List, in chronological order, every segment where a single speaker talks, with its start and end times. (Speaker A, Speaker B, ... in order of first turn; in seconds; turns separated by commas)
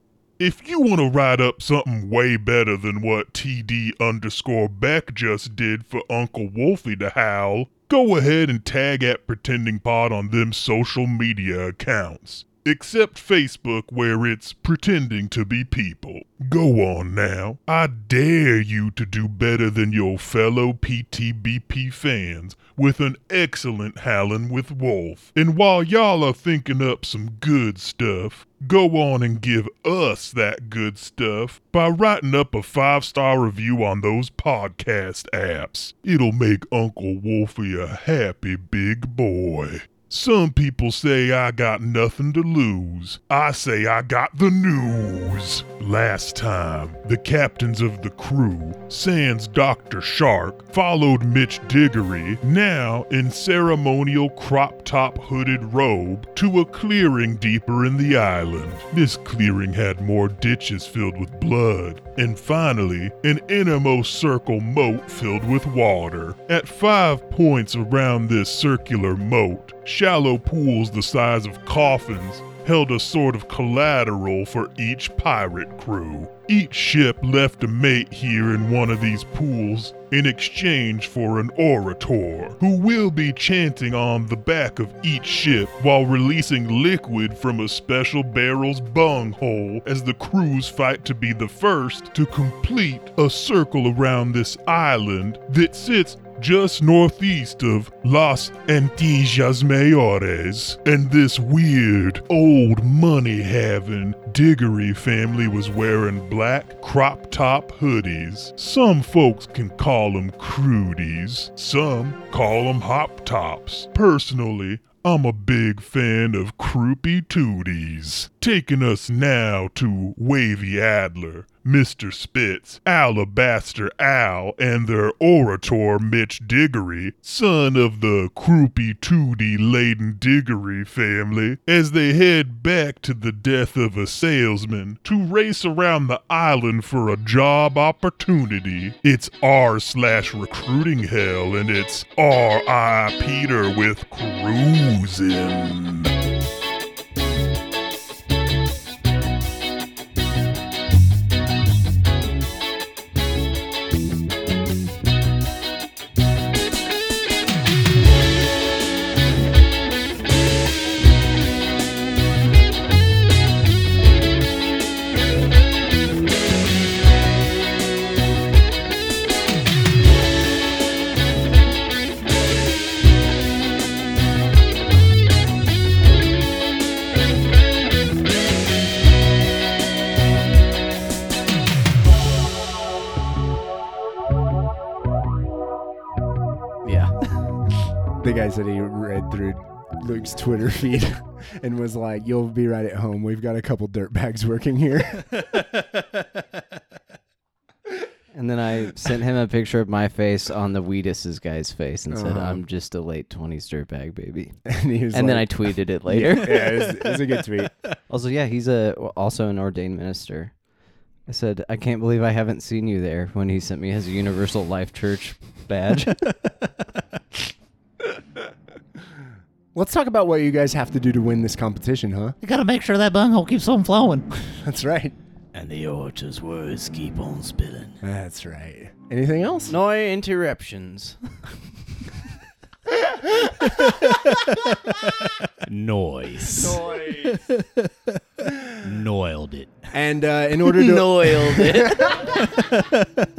Speaker A: 0.4-146.1, Speaker B: 186.8-187.1, Speaker C: 188.2-195.5, Speaker B: 198.3-204.6, Speaker C: 202.1-202.6, Speaker C: 204.7-207.7, Speaker B: 205.1-206.8, Speaker D: 206.8-207.2, Speaker B: 208.1-210.5, Speaker B: 211.3-216.3, Speaker C: 219.7-222.4, Speaker D: 222.4-224.2, Speaker C: 224.5-225.2, Speaker E: 225.5-228.0, Speaker C: 228.0-229.8, Speaker B: 229.7-231.2, Speaker C: 233.0-233.8, Speaker D: 233.8-235.4, Speaker E: 235.6-236.8, Speaker C: 236.6-237.4, Speaker D: 237.3-237.9, Speaker C: 238.4-238.7, Speaker E: 238.8-239.8, Speaker C: 239.9-242.8, Speaker B: 240.8-242.4, Speaker D: 242.5-243.1